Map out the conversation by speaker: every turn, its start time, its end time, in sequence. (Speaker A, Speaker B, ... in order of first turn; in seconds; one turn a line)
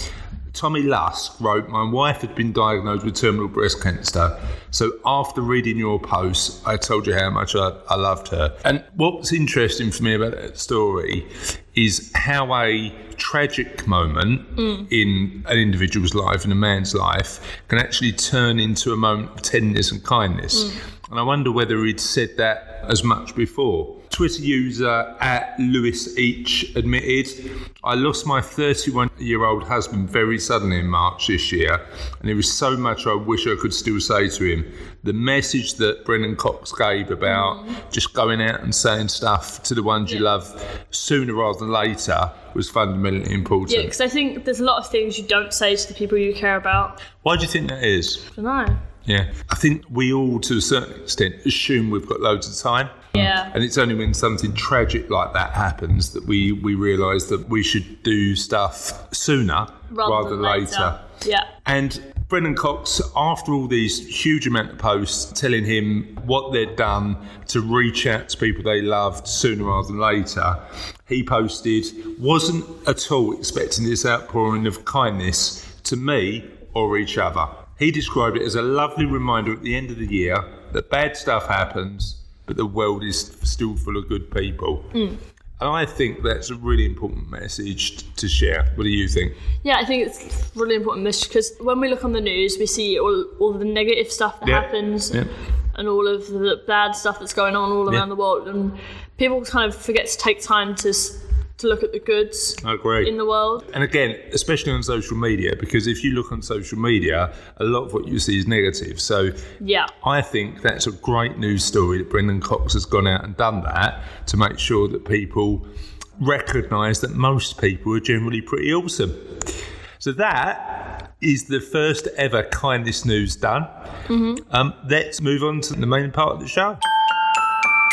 Speaker A: 0.5-43.9
Speaker B: 37.3-37.8
Speaker B: 43.7-47.0
Speaker A: 47.2-48.3
Speaker B: 48.3-48.9
Speaker A: 49.0-61.0
Speaker B: 53.1-53.5
Speaker B: 59.9-61.5
Speaker A: 61.6-85.0
Speaker A: 85.6-89.4
Speaker B: 89.6-103.7
Speaker A: 94.4-95.3
Speaker A: 102.6-103.1
Speaker A: 103.7-109.4
Speaker B: 109.6-109.9
Speaker A: 110.0-115.7
Speaker A: 116.2-119.4
Speaker A: 120.0-123.7
Speaker B: 124.1-124.4
Speaker A: 124.5-126.8